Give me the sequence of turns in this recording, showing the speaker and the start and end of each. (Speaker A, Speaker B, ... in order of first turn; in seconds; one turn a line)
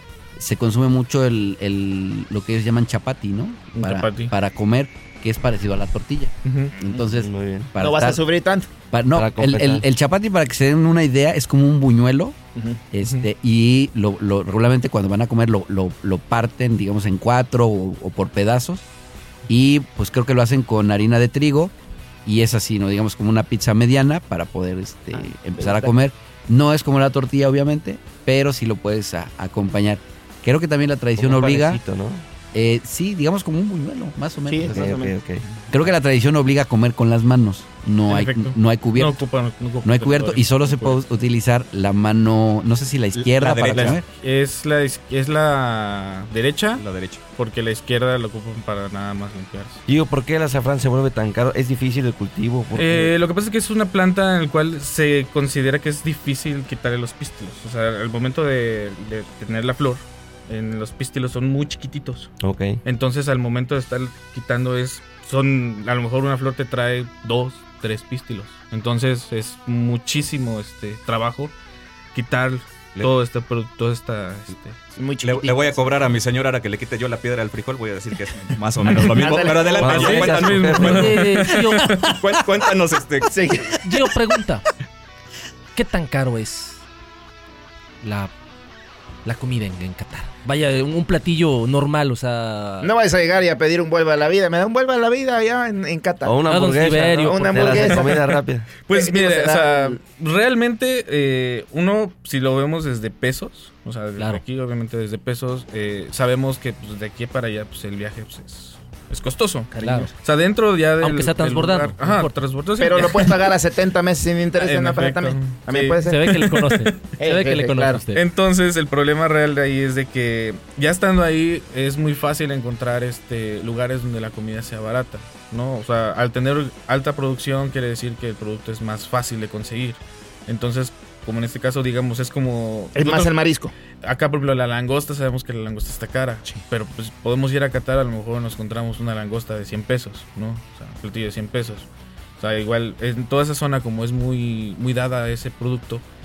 Speaker A: 0.4-8.2
Speaker B: 3.7-4.3
Speaker B: 6.4-6.7
Speaker C: 6.7-7.0
Speaker D: 7.1-7.7
Speaker C: 7.8-8.7
Speaker A: 8.9-12.4
Speaker D: 9.1-9.8
Speaker C: 12.5-12.8
Speaker A: 12.9-18.9
Speaker A: 19.5-21.7
Speaker A: 22.2-31.8
Speaker C: 25.1-25.9
Speaker D: 31.2-32.2
Speaker A: 32.5-34.9
Speaker C: 34.5-35.2
Speaker D: 34.7-35.4
Speaker A: 35.7-39.2
Speaker B: 38.1-41.0
Speaker A: 39.8-44.0
Speaker E: 43.1-44.0
Speaker B: 43.7-46.8
Speaker E: 46.8-47.2
Speaker B: 47.4-49.8
Speaker D: 49.9-53.1
Speaker B: 52.7-62.3
Speaker D: 62.4-62.8
Speaker B: 62.8-71.5
Speaker B: 72.1-74.8
Speaker C: 74.9-75.8
Speaker E: 75.2-83.3
Speaker C: 78.9-80.3
Speaker D: 79.8-81.1
Speaker B: 80.3-82.0
Speaker F: 80.8-82.0
Speaker C: 83.2-83.9
Speaker F: 83.8-84.6
Speaker F: 85.7-86.8
Speaker F: 88.0-88.3
Speaker F: 89.2-92.9
Speaker C: 92.8-96.4
Speaker D: 96.2-98.7
Speaker F: 96.5-97.9
Speaker C: 97.2-98.2
Speaker B: 98.8-113.4
Speaker C: 98.9-100.0
Speaker F: 104.2-104.4
Speaker C: 109.7-110.1
Speaker F: 109.8-110.1
Speaker F: 111.0-112.4
Speaker C: 112.8-116.3
Speaker B: 114.6-117.1
Speaker F: 116.0-118.2
Speaker C: 117.2-118.0
Speaker B: 118.1-133.3
Speaker C: 132.9-133.7
Speaker B: 134.0-146.0